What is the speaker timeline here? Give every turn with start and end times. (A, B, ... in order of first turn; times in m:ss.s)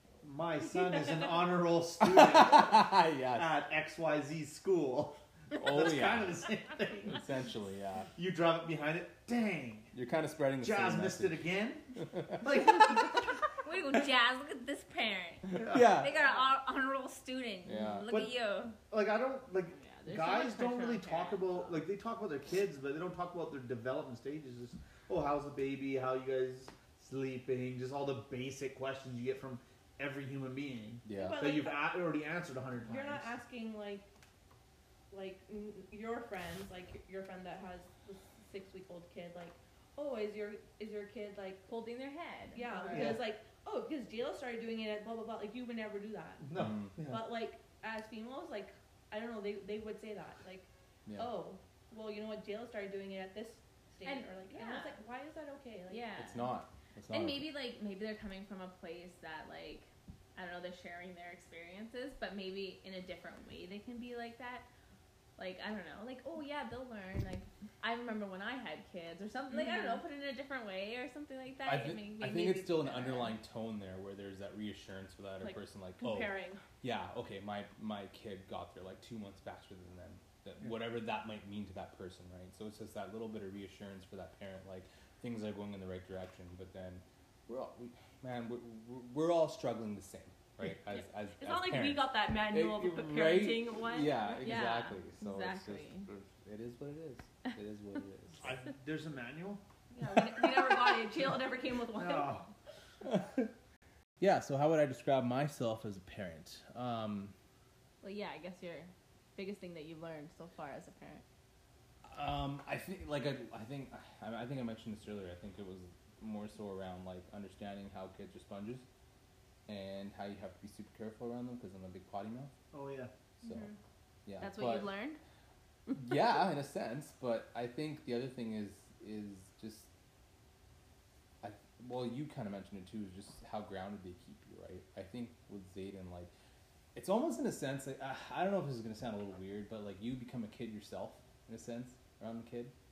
0:00.2-0:07.2 A
0:02.0-0:03.5 B
0:05.6-0:08.1 B
0:08.2-0:09.9 A
0:09.9-0:11.4 B
0:10.6-0:13.4 A
0:12.0-0:12.6 B
0:13.5-0:18.8 C
0:15.6-0:16.0 A
0:15.6-0:16.1 B
0:17.6-0:18.1 B
0:18.1-0:33.3 A
0:19.7-0:21.9 D
0:31.0-0:31.6 B
0:31.2-0:31.9 E
0:32.8-0:34.1 E
0:35.1-0:41.6 E
0:41.7-0:43.1 D
0:42.5-0:56.1 E
0:42.8-0:43.2 A
0:46.4-0:47.3 A
0:46.5-0:46.9 B
0:54.0-0:55.0 D
0:55.9-0:56.5 D
0:56.2-0:57.5 B
0:57.1-1:04.7 D
1:05.4-1:13.4 D
1:09.5-1:10.0 E
1:11.6-1:38.5 B
1:15.4-1:16.6 E
1:31.4-1:34.4 E
1:34.4-1:36.1 D
1:38.4-1:39.6 A
1:39.9-1:42.4 E
1:41.9-1:42.5 A
1:43.0-1:43.5 B
1:44.2-1:47.3 B
1:48.0-1:51.2 D
1:52.0-1:58.8 B
1:59.7-2:02.5 B
2:02.7-2:03.1 A
2:03.4-2:03.7 B
2:03.4-2:03.8 E
2:04.2-2:04.9 B
2:04.4-2:05.2 D
2:05.9-2:09.9 B
2:11.4-2:16.3 B
2:16.9-2:22.7 B